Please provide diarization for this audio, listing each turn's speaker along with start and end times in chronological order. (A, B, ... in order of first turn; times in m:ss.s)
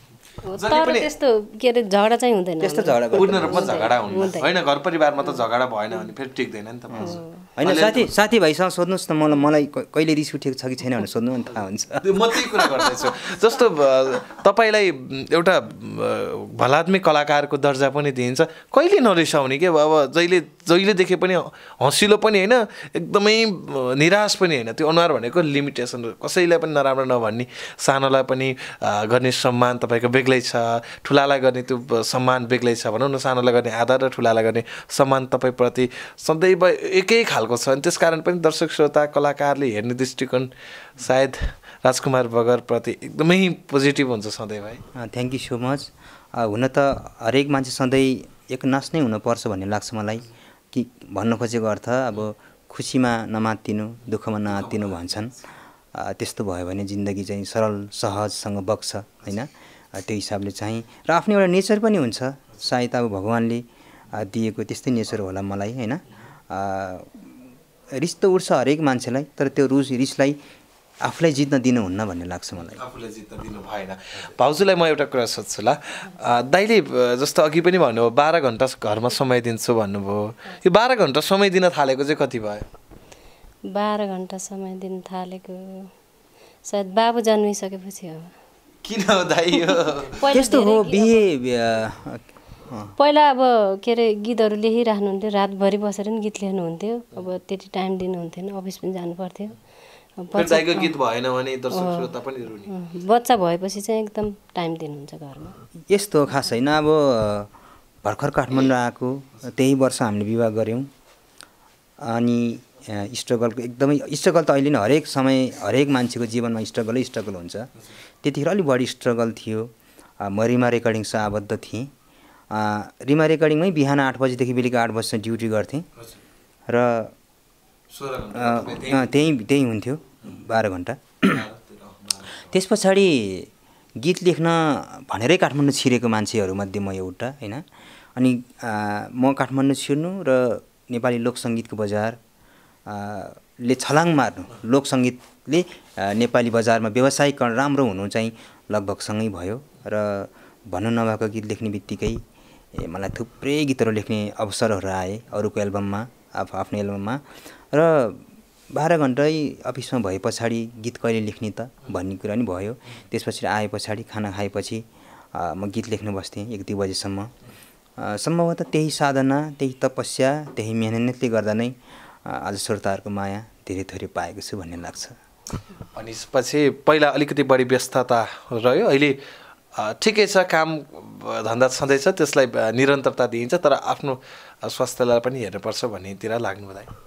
0:00.5-0:04.5 A
0:00.5-0:01.1 B
0:02.6-0:03.9 C
0:03.1-0:08.1 B
0:06.9-0:12.5 C
0:07.0-0:07.4 A
0:12.0-0:44.8 B
0:45.0-0:55.3 C
0:54.5-0:55.3 B
0:55.9-1:07.3 C
1:07.9-1:10.4 C
1:11.0-1:12.8 C
1:12.6-1:22.6 B
1:23.7-1:25.9 A
1:26.6-1:28.3 A
1:28.8-1:30.2 B
1:29.5-1:31.2 A
1:30.3-1:33.0 C
1:33.0-1:39.6 A
1:40.2-1:40.9 A
1:40.3-1:42.7 B
1:41.7-1:42.1 A
1:42.7-1:45.6 A
1:45.9-1:47.5 C
1:48.0-1:50.9 C
1:52.0-1:57.7 C
1:58.2-2:01.9 C
2:02.5-2:05.8 C
2:06.7-2:07.1 C
2:07.9-2:09.1 B
2:08.3-2:11.4 C
2:11.2-2:12.5 B
2:12.5-2:17.6 C
2:18.2-2:22.2 C
2:22.9-2:32.2 C
2:32.7-2:47.3 C
2:48.0-2:55.2 C
2:55.9-2:59.2 B
2:59.7-3:06.9 B